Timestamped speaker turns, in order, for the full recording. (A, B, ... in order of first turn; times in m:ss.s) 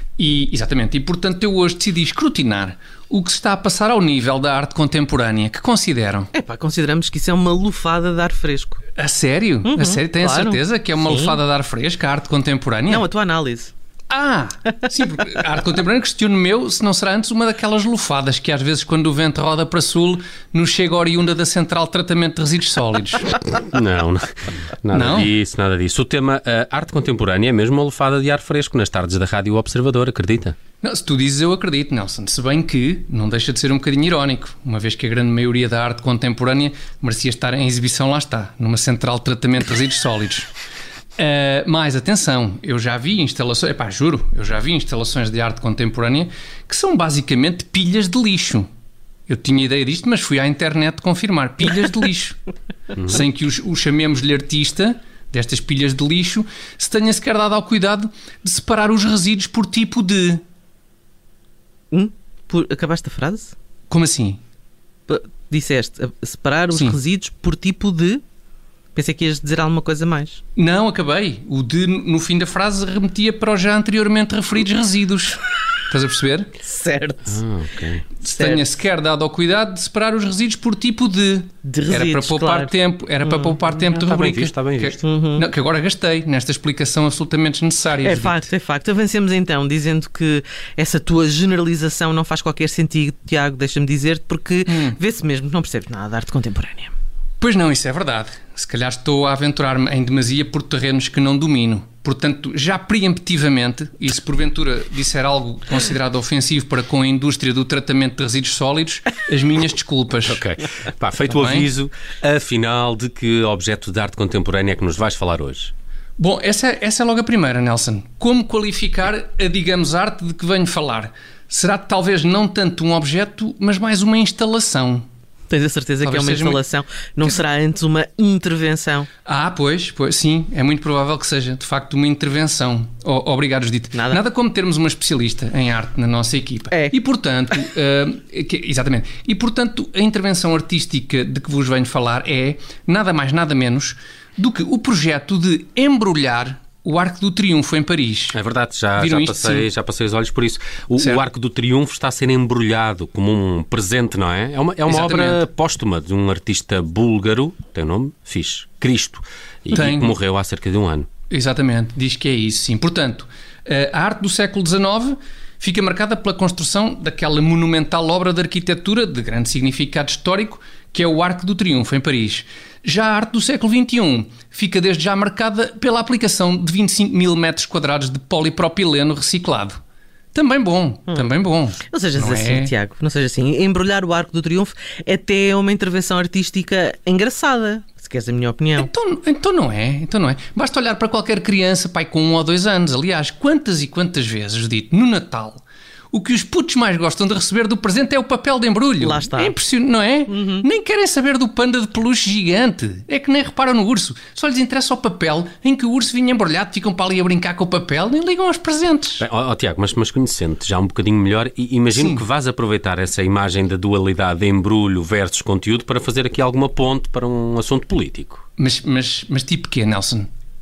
0:00.2-0:06.3 A
0:06.3-0:08.8 B
0:09.0-0:13.1 A
0:09.7-0:11.4 B
0:12.9-0:13.7 B
0:14.1-0:23.3 A
0:23.5-0:24.3 C
0:24.8-0:30.6 C
0:24.9-0:25.3 A
0:30.8-0:40.5 A
0:41.2-0:48.7 A
0:49.3-0:52.4 A
0:53.0-1:00.4 A
1:01.9-1:03.5 B
1:03.9-1:04.4 A
1:05.1-1:08.2 B
1:06.7-1:07.0 A
1:08.9-1:10.4 B
1:10.6-1:16.5 A
1:16.6-1:17.4 B
1:17.3-1:18.1 C
1:18.2-1:28.5 A
1:18.4-1:18.7 B
1:21.6-1:23.7 B
1:23.9-1:25.0 C
1:25.0-1:25.5 B
1:28.0-1:36.9 B
1:34.7-1:35.0 A
1:37.4-1:50.4 A
1:50.3-1:55.7 C
1:51.3-1:51.7 A
1:56.2-2:05.0 A
2:05.5-2:09.1 B
2:06.0-2:06.6 A
2:09.3-2:28.4 A
2:13.9-2:14.2 B
2:28.3-2:41.1 C
2:29.0-2:29.7 A
2:31.0-2:31.3 A
2:34.9-2:35.4 A
2:39.7-2:40.2 A
2:41.3-2:59.8 A
3:00.3-3:02.7 A
3:01.9-3:08.9 B
3:08.8-3:29.2 A
3:19.0-3:19.6 B
3:20.3-3:20.7 B
3:29.2-3:38.4 C
3:31.9-3:32.2 A
3:38.6-3:40.3 A